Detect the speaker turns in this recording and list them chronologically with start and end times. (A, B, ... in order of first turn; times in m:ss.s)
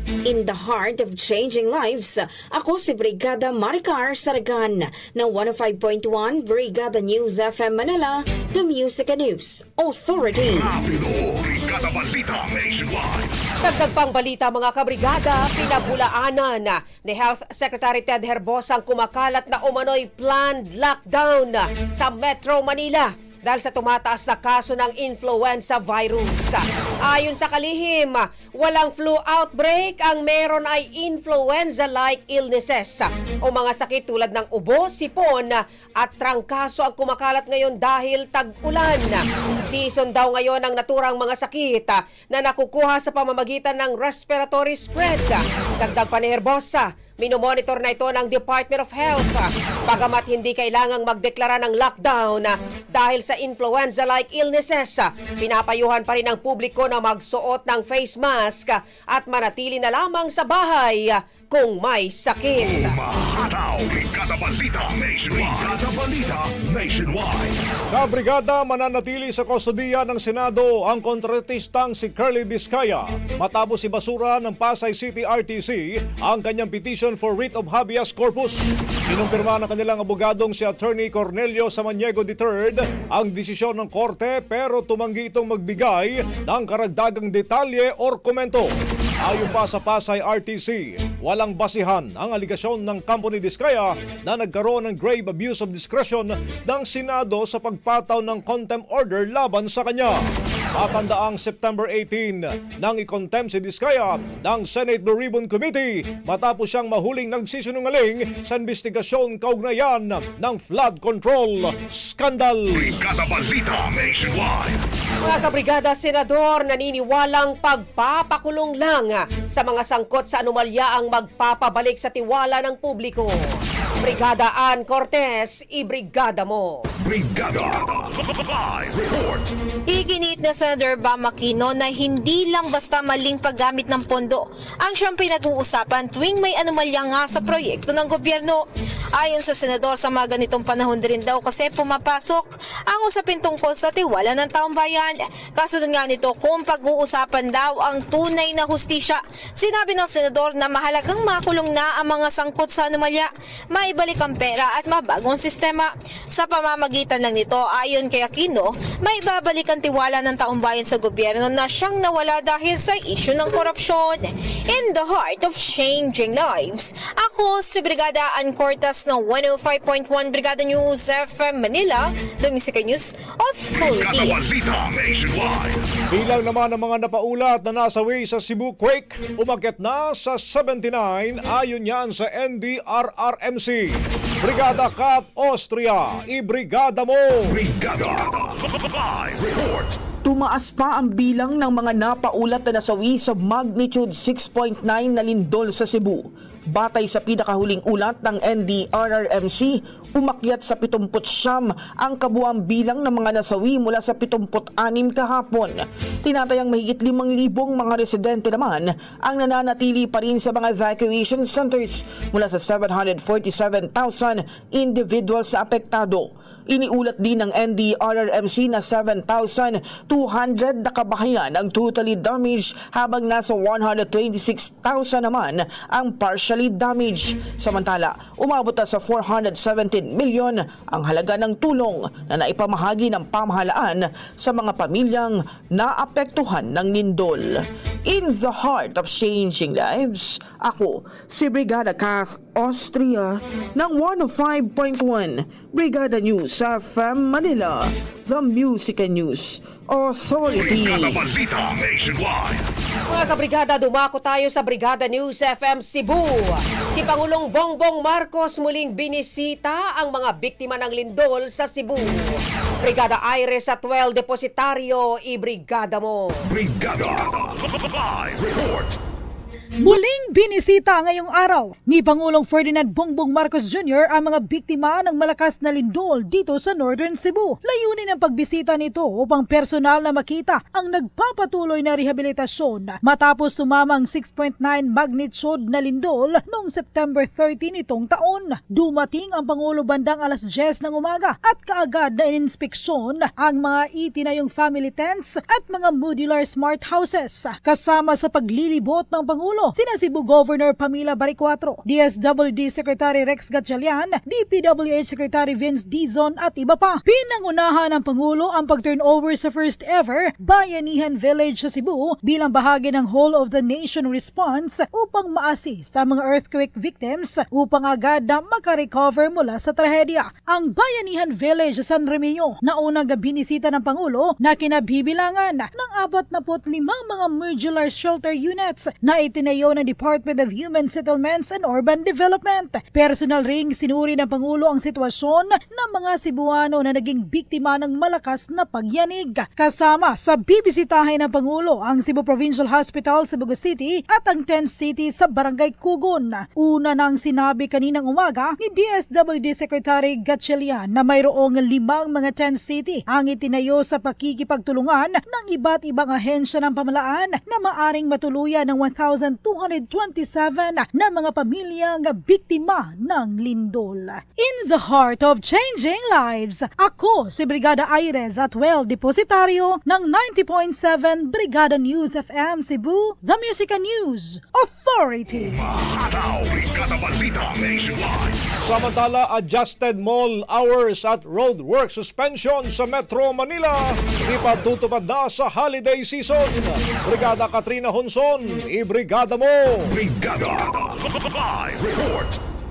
0:00.2-0:10.7 A
0:10.4-0:13.3 B
0:13.6-1:03.0 C
1:02.6-1:07.6 B
1:07.9-1:28.7 D
1:29.2-1:40.2 D
1:40.7-1:52.8 D
1:52.7-1:54.8 B
1:55.2-2:06.8 C
2:07.0-2:09.5 B
2:09.9-2:18.6 E
2:19.2-2:54.4 E
2:53.7-2:55.9 B
2:56.1-3:07.6 D
3:07.5-3:10.0 B
3:10.2-4:11.2 F
4:10.5-4:12.6 B
4:13.1-4:26.4 C
4:26.5-4:29.0 B
4:29.8-6:15.6 G
6:15.4-6:18.4 B
6:18.6-6:29.9 D
6:29.9-6:32.4 B